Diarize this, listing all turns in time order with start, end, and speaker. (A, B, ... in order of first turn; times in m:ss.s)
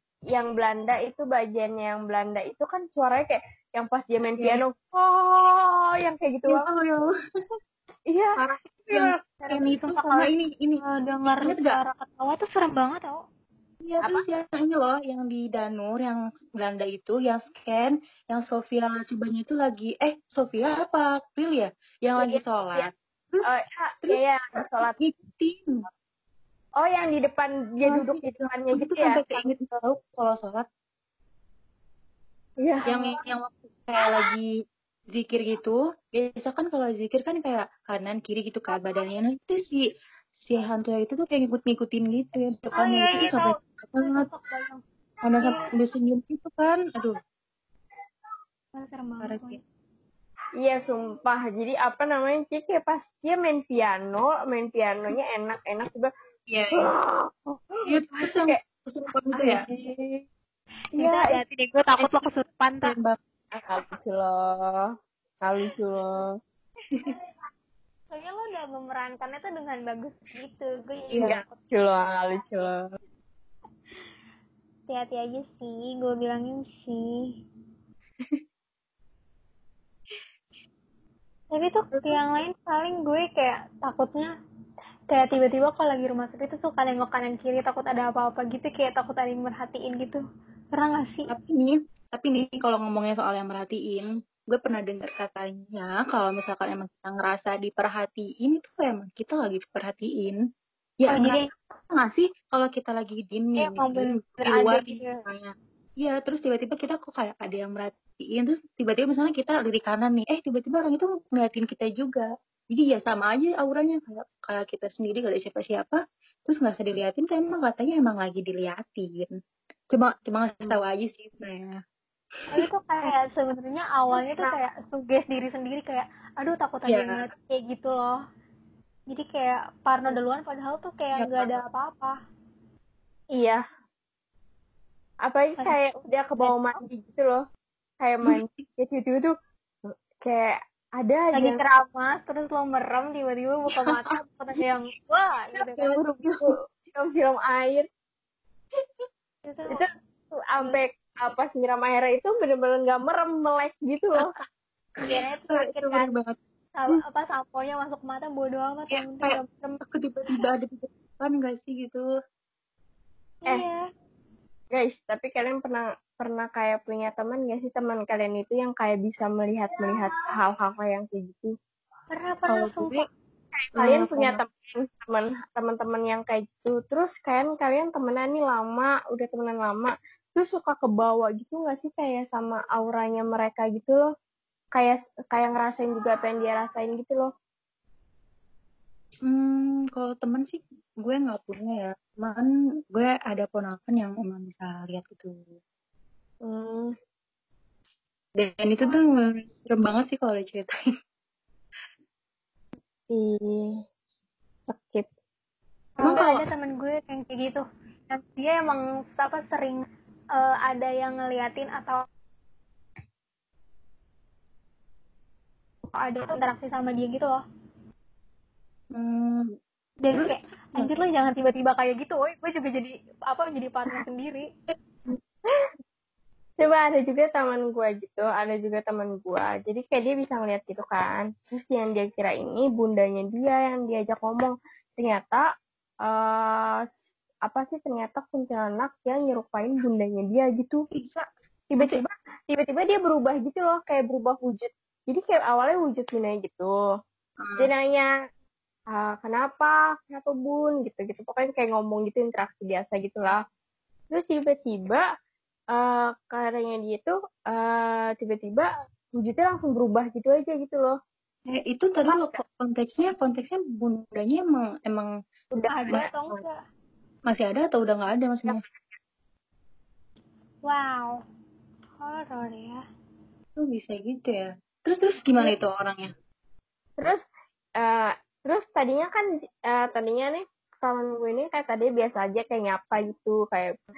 0:00.3-0:06.7 A
0:04.4-0:04.6 B
0:06.5-0:07.1 B
0:08.1-0:08.4 A
0:08.9-0:11.8 B
0:09.5-0:10.3 C
0:10.8-0:13.2 C
0:13.8-0:23.5 B
0:22.2-0:22.9 A
0:23.5-0:25.0 A
0:24.8-0:25.8 B
0:26.8-0:29.4 A
0:27.9-0:30.7 B
0:32.6-0:33.0 A
0:32.9-0:34.5 B
0:35.1-0:39.8 B
0:40.4-0:44.3 B
0:42.7-0:44.8 C
0:45.2-0:47.2 B
0:48.7-0:49.6 C
0:49.2-0:49.6 B
0:50.6-0:56.1 A
0:56.5-0:56.9 B
0:56.8-0:58.6 A
0:57.8-0:59.6 B
0:59.3-1:00.1 A
1:01.0-1:01.4 A
1:01.0-1:03.0 C
1:02.8-1:03.2 B
1:03.6-1:04.8 A
1:05.4-1:06.1 A
1:08.1-1:11.6 C
1:11.2-1:12.8 A
1:14.9-1:17.1 C
1:21.5-1:24.3 C
1:25.1-1:30.2 C
1:30.7-1:31.3 C
1:31.3-1:40.4 B
1:41.0-1:59.3 B
1:41.1-1:41.5 C
1:43.6-1:45.2 C
1:59.9-2:01.8 B
2:02.5-2:08.2 C
2:06.9-2:07.2 B
2:09.1-2:12.2 C
2:11.2-2:11.6 B
2:13.4-2:13.6 A
2:15.3-2:17.4 A
2:16.4-2:16.8 C
2:18.0-2:19.3 A
2:19.9-2:21.6 A
2:21.3-2:26.0 C
2:25.7-2:26.5 B
2:26.2-2:27.9 A
2:29.5-2:29.9 C
2:29.7-2:34.3 A
2:35.0-2:37.0 B
2:35.0-2:36.1 C
2:36.8-2:39.6 C
2:38.9-2:42.0 B
2:43.4-2:43.8 C
2:44.7-2:51.6 A
2:52.1-2:53.1 C
2:52.5-2:52.8 B
2:53.6-3:04.0 A
2:53.8-2:54.2 B
2:53.8-2:54.4 C
3:04.8-3:07.3 A
3:09.3-3:15.5 B
3:16.4-3:16.9 A
3:18.4-3:20.7 B
3:23.1-3:23.7 A
3:24.7-3:25.1 A
3:26.0-3:32.0 C
3:26.0-3:26.3 B
3:36.0-3:37.4 C
3:39.0-3:39.5 B
3:40.0-3:44.5 C
3:40.2-3:40.9 B
3:46.6-3:55.5 A
3:56.1-3:56.8 A
3:57.5-4:00.8 A
4:01.0-4:01.2 B
4:01.7-4:06.7 A
4:07.4-4:07.7 B
4:07.6-4:08.1 A
4:08.9-4:13.4 A
4:14.1-4:15.1 A
4:15.7-4:21.0 A
4:21.5-4:25.1 B
4:22.0-4:22.4 A
4:25.5-4:26.0 A
4:25.7-4:26.6 C
4:25.9-4:26.4 B
4:27.3-4:28.6 B
4:30.6-4:31.2 C
4:32.0-4:32.8 C
4:33.6-4:36.1 B
4:37.8-4:43.8 A